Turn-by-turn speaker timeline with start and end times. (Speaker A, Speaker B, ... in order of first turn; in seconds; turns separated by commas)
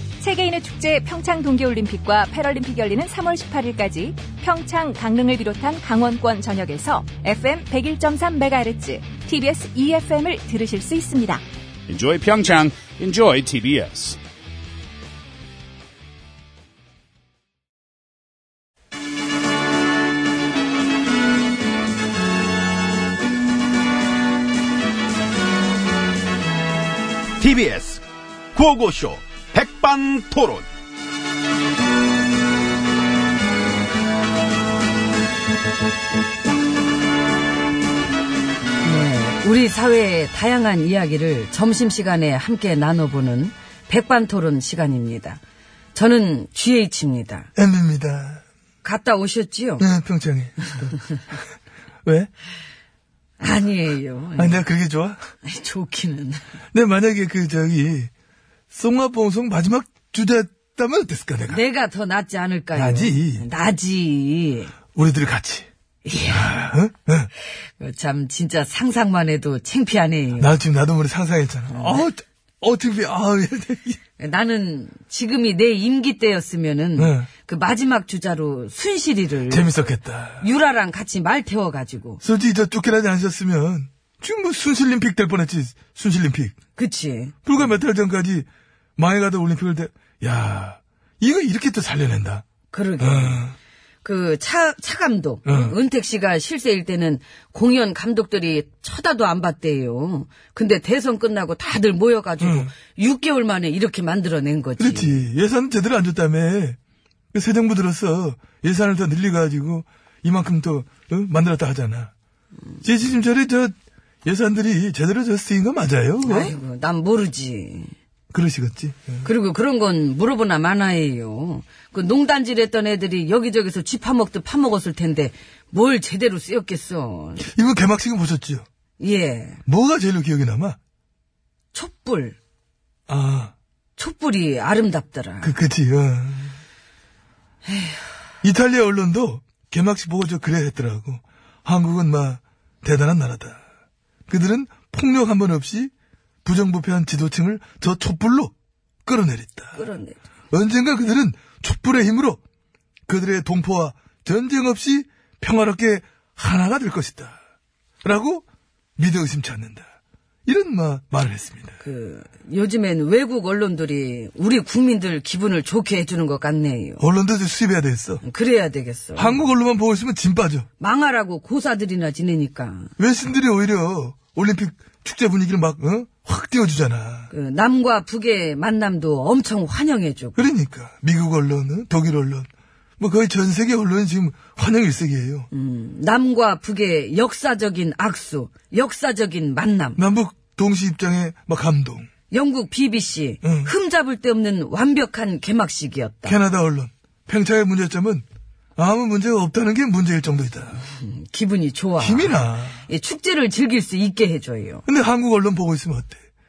Speaker A: 0.2-11.4, Speaker B: 11.9-14.2, Speaker C: 27.4-28.0, Speaker C: 28.5-30.7, Speaker D: 38.8-45.4, Speaker D: 45.9-47.5, Speaker E: 47.6-48.4, Speaker D: 48.8-49.9, Speaker E: 49.8-50.9, Speaker E: 52.0-52.3, Speaker D: 53.4-54.6, Speaker E: 54.4-55.2, Speaker D: 55.4-56.4, Speaker E: 56.7-58.1, Speaker E: 58.7-61.6, Speaker D: 61.5-64.7, Speaker E: 62.7-63.5, Speaker E: 65.0-65.7, Speaker D: 66.0-66.6, Speaker E: 66.3-67.3, Speaker D: 67.8-70.6, Speaker E: 70.4-74.0, Speaker D: 71.7-72.1, Speaker D: 74.2-79.7, Speaker E: 77.0-77.3, Speaker E: 79.5-80.5, Speaker D: 80.4-82.2, Speaker E: 82.2-86.5, Speaker D: 86.8-87.4, Speaker E: 87.5-92.4, Speaker D: 92.7-93.5, Speaker E: 93.0-93.5, Speaker D: 94.0-105.2, Speaker E: 95.5-95.8, Speaker E: 102.4-102.7, Speaker E: 104.8-106.8, Speaker E: 107.3-112.1, Speaker E: 112.8-113.7, Speaker E: 114.2-116.5, Speaker D: 116.2-118.0, Speaker E: 118.3-119.3, Speaker D: 119.2-127.5, Speaker E: 127.4-128.7, Speaker D: 129.0-129.6, Speaker E: 129.7-130.8, Speaker D: 131.7-132.4, Speaker E: 133.1-133.5, Speaker D: 134.0-135.6, Speaker E: 135.4-136.6, Speaker D: 137.7-138.2, Speaker E: 138.4-143.6, Speaker E: 144.3-145.9, Speaker E: 146.4-148.5, Speaker E: 149.1-149.9, Speaker D: 149.8-150.2, Speaker E: 150.5-152.4, Speaker E: 153.1-157.4, Speaker E: 158.0-158.4, Speaker E: 159.0-159.8, Speaker E: 160.5-161.8, Speaker D: 161.8-167.0, Speaker E: 167.0-168.2, Speaker D: 168.2-169.4, Speaker E: 169.2-170.7, Speaker D: 170.8-172.9, Speaker E: 173.0-177.3, Speaker D: 177.3-180.4, Speaker E: 180.4-182.5, Speaker E: 183.0-185.5, Speaker D: 185.5-190.0, Speaker E: 190.0-192.1, Speaker D: 192.3-196.4, Speaker E: 193.4-193.7, Speaker E: 196.2-198.2, Speaker E: 198.8-200.8, Speaker D: 200.8-204.8, Speaker E: 202.0-202.8, Speaker E: 204.9-206.2